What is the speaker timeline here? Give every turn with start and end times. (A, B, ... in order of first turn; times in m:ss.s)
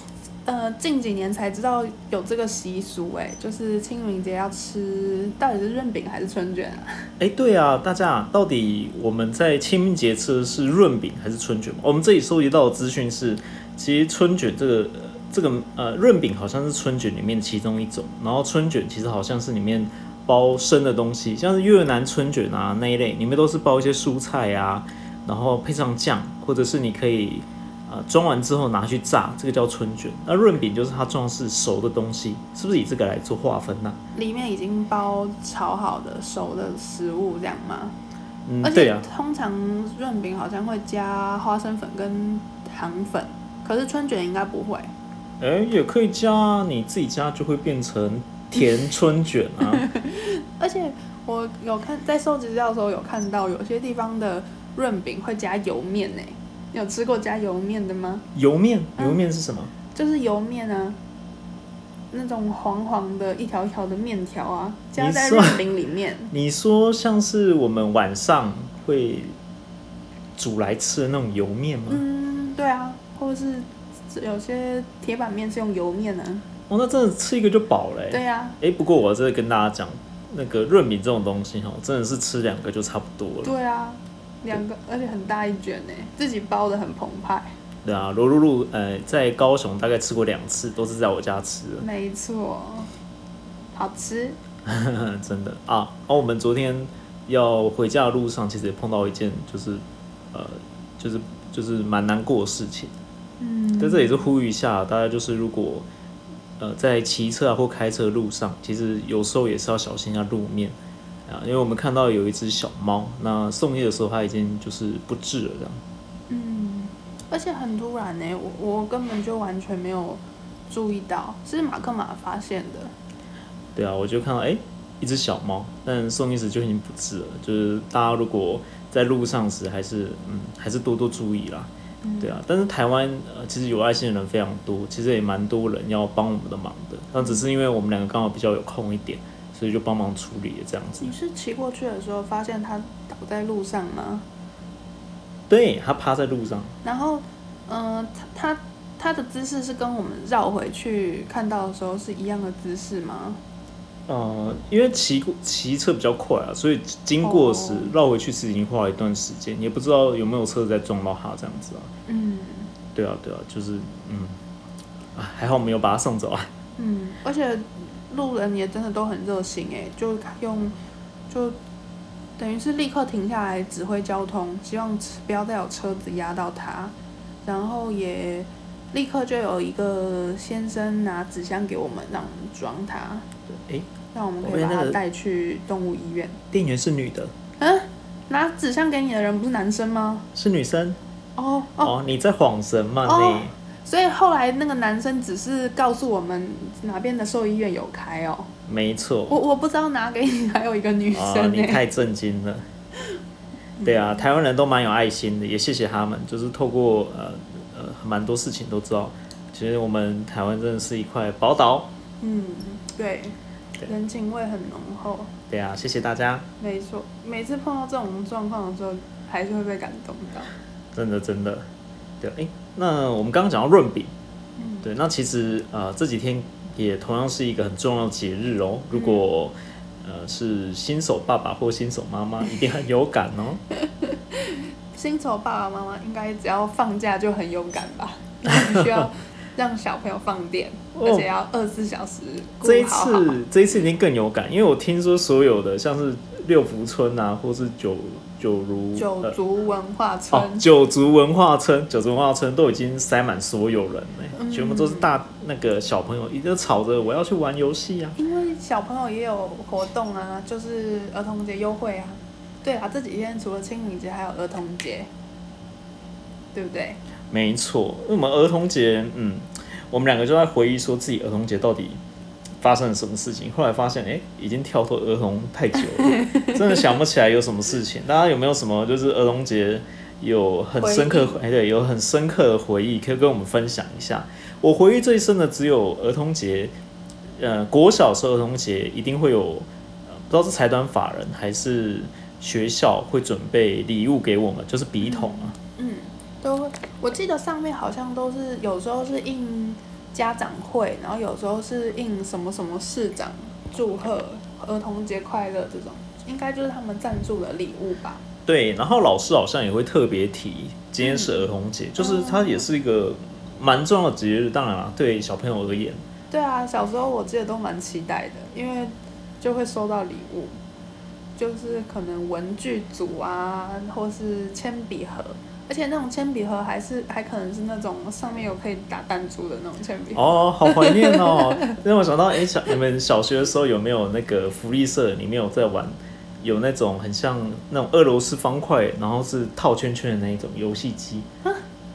0:00.5-0:07.0 A
0:07.2-0:34.0 B
0:34.2-0:38.0 A
0:38.5-0:39.1 B
0:38.6-0:44.9 A
0:45.4-0:49.9 B
0:49.7-0:58.3 A
0:58.4-0:59.7 B
0:59.9-1:01.0 A
1:02.1-1:06.3 A
1:05.0-1:05.6 B
1:06.3-1:09.4 B
1:10.4-1:12.0 B
1:11.9-1:16.4 A
1:16.7-1:23.5 B
1:18.1-1:18.6 A
1:23.4-1:27.5 A
1:27.8-1:31.9 B
1:31.8-1:32.9 A
1:33.8-1:34.4 A
1:34.7-1:42.9 B
1:43.4-1:44.3 A
1:43.8-1:45.9 B
1:46.6-1:50.8 B
1:51.3-1:55.8 B
1:56.3-2:02.9 A
2:03.8-2:11.7 B
2:12.0-2:12.4 A
2:12.2-2:21.1 B
2:21.0-2:24.2 A
2:25.5-2:26.8 B
2:26.8-2:33.4 A
2:34.1-2:41.9 B
2:37.2-2:37.9 A
2:42.1-2:42.7 A
2:42.9-2:44.4 B
2:45.2-2:46.5 B
2:46.8-2:50.8 A
2:51.3-2:51.6 A
2:52.4-2:56.9 A
2:57.4-3:03.3 A
3:03.5-3:03.9 B
3:04.1-3:06.4 A
3:04.4-3:05.0 B
3:06.5-3:07.3 B
3:07.6-3:10.3 A
3:10.3-3:11.0 B
3:11.4-3:12.0 A
3:11.8-3:13.5 B
3:13.0-3:18.5 A
3:18.7-3:19.4 B
3:19.3-3:21.8 A
3:21.1-3:22.6 B
3:23.8-3:24.2 A
3:23.8-3:31.9 B
3:32.2-3:35.3 A
3:35.5-3:36.5 B
3:36.6-3:40.5 A
3:40.9-3:41.6 B
3:42.2-3:44.1 B
3:44.6-3:44.9 A
3:44.8-3:53.6 B
3:48.9-3:49.3 A
3:53.9-4:03.4 A
3:58.5-3:59.0 B
4:01.0-4:01.3 B
4:02.6-4:09.4 B
4:09.0-4:10.7 A
4:10.3-4:18.2 B
4:14.4-4:15.1 A
4:18.2-4:25.1 A
4:26.5-4:27.0 A
4:27.3-4:32.0 B
4:32.6-4:46.7 B
4:35.8-4:36.8 A
4:40.8-4:41.4 A
4:47.4-4:55.6 B
4:55.0-5:08.2 A
5:08.5-5:16.0 B
5:11.0-5:11.5 A
5:12.0-5:12.7 A
5:16.3-5:20.6 A
5:21.4-5:31.8 A
5:30.1-5:41.3 B